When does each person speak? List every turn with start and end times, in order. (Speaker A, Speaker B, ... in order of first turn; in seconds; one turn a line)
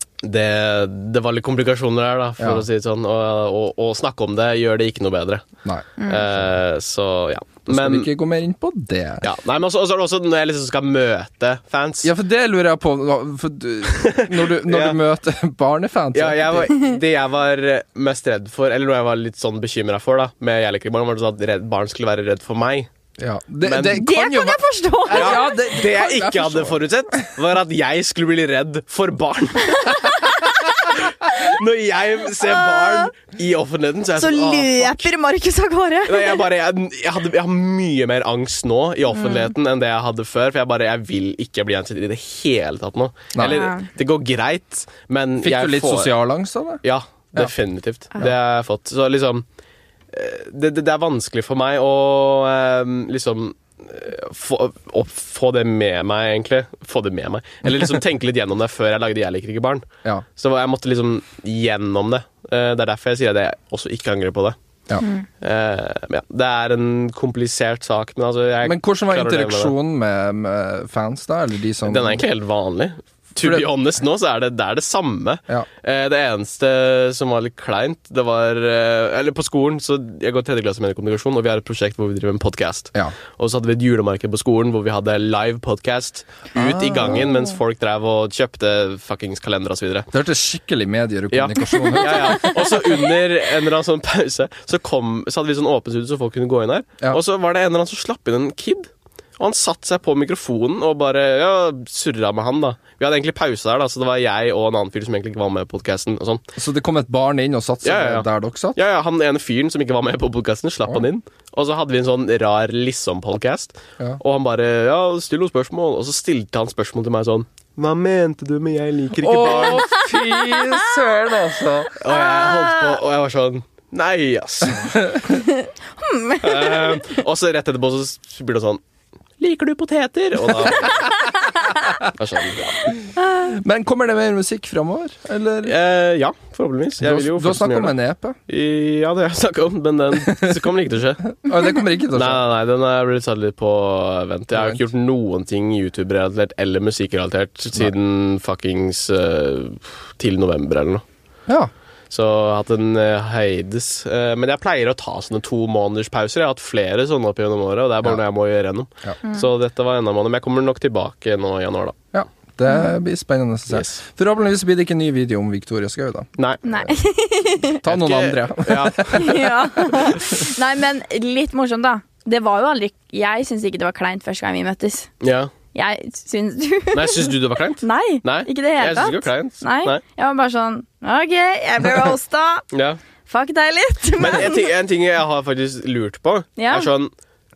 Speaker A: 0.2-5.4
Speaker B: 2.4-2.6
Speaker B: 5.6-6.5
Speaker A: 6.0-8.1
Speaker B: 7.7-9.2
Speaker A: 9.2-12.1
Speaker B: 12.0-16.7
Speaker A: 13.9-15.0
Speaker A: 16.1-22.9
Speaker B: 23.2-26.9
Speaker A: 23.6-24.0
Speaker C: 23.9-25.7
Speaker A: 25.1-35.1
Speaker C: 32.4-33.1
Speaker C: 34.1-36.4
Speaker A: 36.1-46.1
Speaker C: 39.1-39.5
Speaker B: 43.3-43.6
Speaker C: 43.4-43.9
Speaker B: 45.4-46.8
Speaker A: 46.8-49.4
Speaker A: 50.1-59.9
Speaker A: 60.4-64.5
Speaker A: 65.4-69.7
Speaker B: 68.6-72.2
Speaker A: 71.8-90.1
Speaker B: 73.4-73.7
Speaker B: 86.5-87.3
Speaker B: 90.1-92.8
Speaker A: 91.3-106.4
Speaker C: 91.7-92.9
Speaker B: 106.5-108.8
Speaker A: 107.8-119.9
Speaker B: 119.2-121.9
Speaker A: 122.0-125.0
Speaker C: 122.1-123.0
Speaker B: 124.7-125.3
Speaker C: 125.3-127.2
Speaker A: 126.4-128.8
Speaker A: 129.4-131.2
Speaker A: 132.1-132.9
Speaker B: 133.4-135.7
Speaker A: 135.6-137.9
Speaker B: 137.0-138.4
Speaker A: 138.5-141.4
Speaker B: 140.3-140.6
Speaker B: 141.3-142.4
Speaker A: 142.1-151.0
Speaker B: 144.5-144.8
Speaker A: 152.1-162.0
Speaker B: 162.1-166.3
Speaker A: 163.7-164.0
Speaker A: 166.4-166.6
Speaker C: 166.6-167.8
Speaker B: 167.8-170.1
Speaker A: 167.8-169.5
Speaker C: 169.1-175.1
Speaker A: 175.2-175.5
Speaker C: 175.7-182.7
Speaker A: 176.9-180.0
Speaker A: 182.7-183.0
Speaker C: 183.2-184.7
Speaker A: 184.2-187.1
Speaker C: 186.6-186.9